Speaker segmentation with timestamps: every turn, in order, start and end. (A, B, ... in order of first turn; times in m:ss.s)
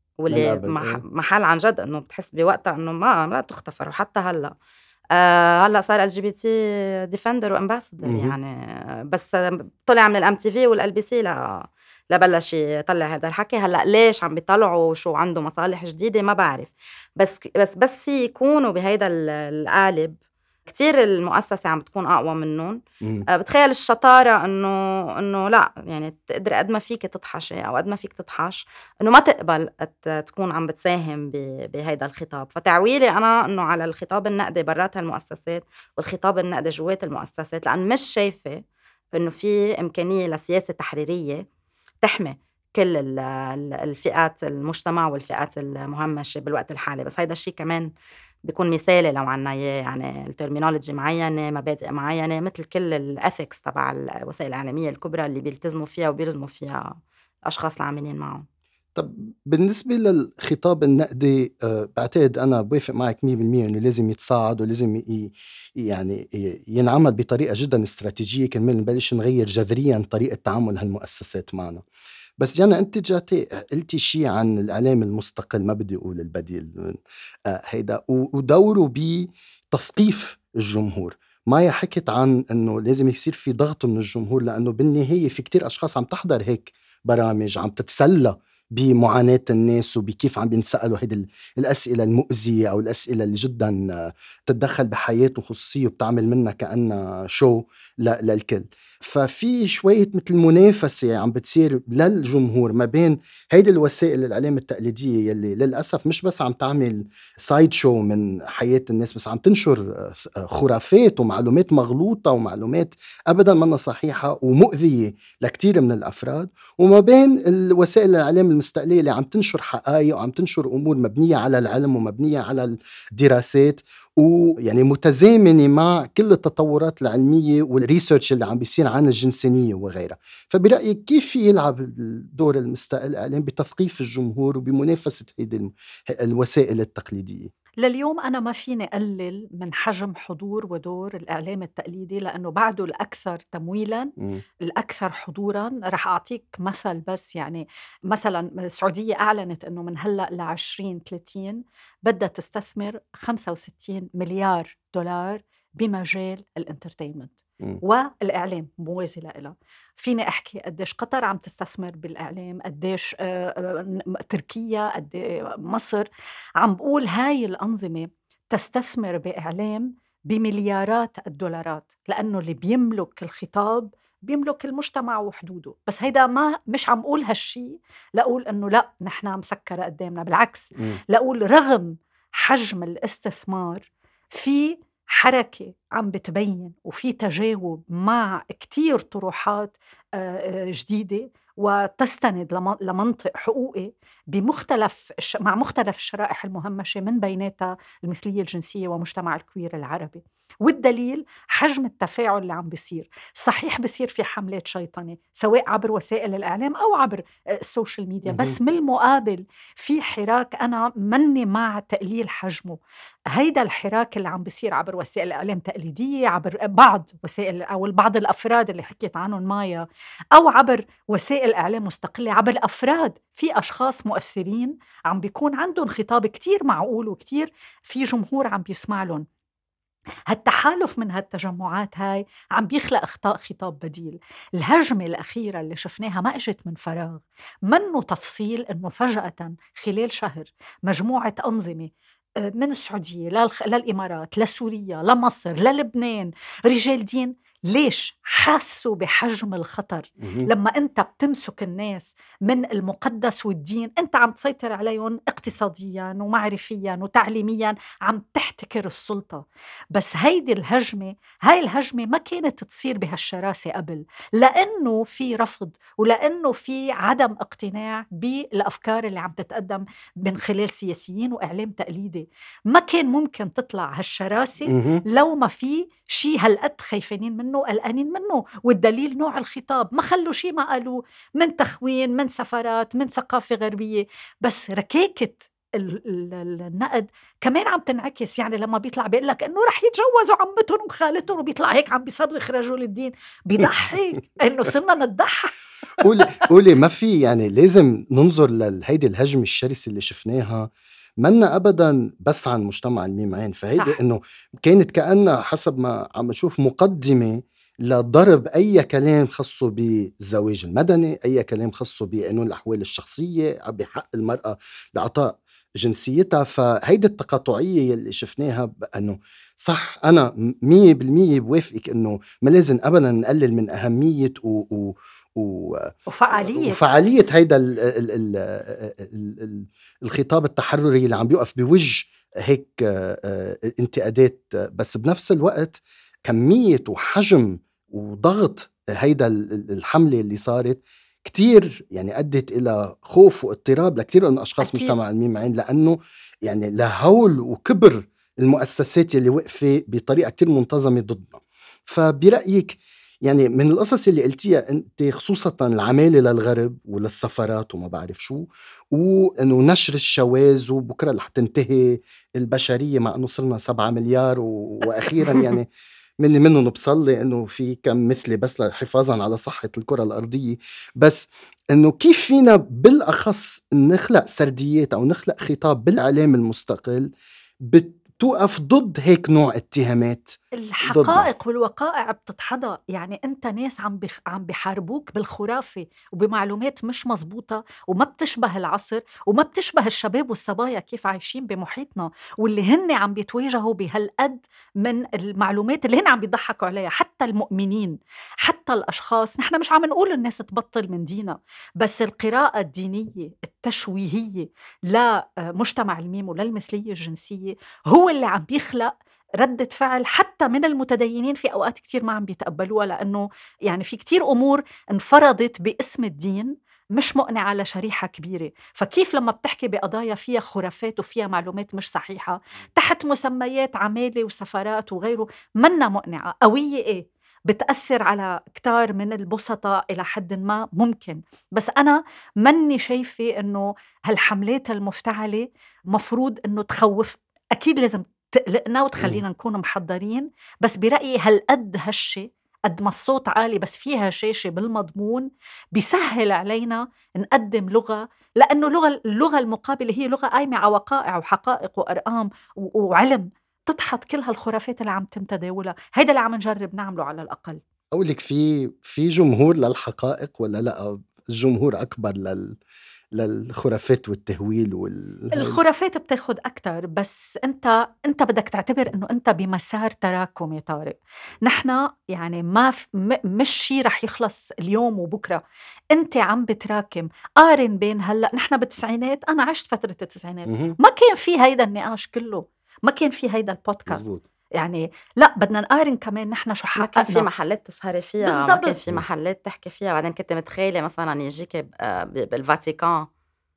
0:00.2-0:04.5 A
0:00.3-0:01.0 B
0:05.1-0:38.6 A
0:08.0-0:08.4 B
0:23.0-0:23.3 B
0:39.1-0:41.4 A
0:42.0-0:47.9 A
0:48.4-0:58.5 A
0:59.0-1:11.8 B
1:12.4-2:17.5 B
2:17.8-2:46.1 C
2:24.2-2:24.4 B
2:46.6-3:32.8 C
3:28.3-3:28.6 B
3:33.3-3:49.2 C
3:50.3-4:55.5 C
4:10.2-4:10.5 B
4:34.7-4:35.0 B
4:56.0-5:00.7 B
5:01.2-6:05.7 B
5:26.1-5:26.9 C
5:44.6-5:45.0 C
6:06.2-6:17.1 B
6:17.6-6:21.3 B
6:20.5-7:37.6 C
7:37.9-7:42.6 B
7:43.1-7:45.6 B
7:45.3-7:55.4 C
7:55.9-8:04.1 C
8:00.5-8:00.8 B
8:03.9-8:04.2 B
8:04.6-8:07.3 C
8:06.8-8:13.1 A
8:08.2-8:08.8 C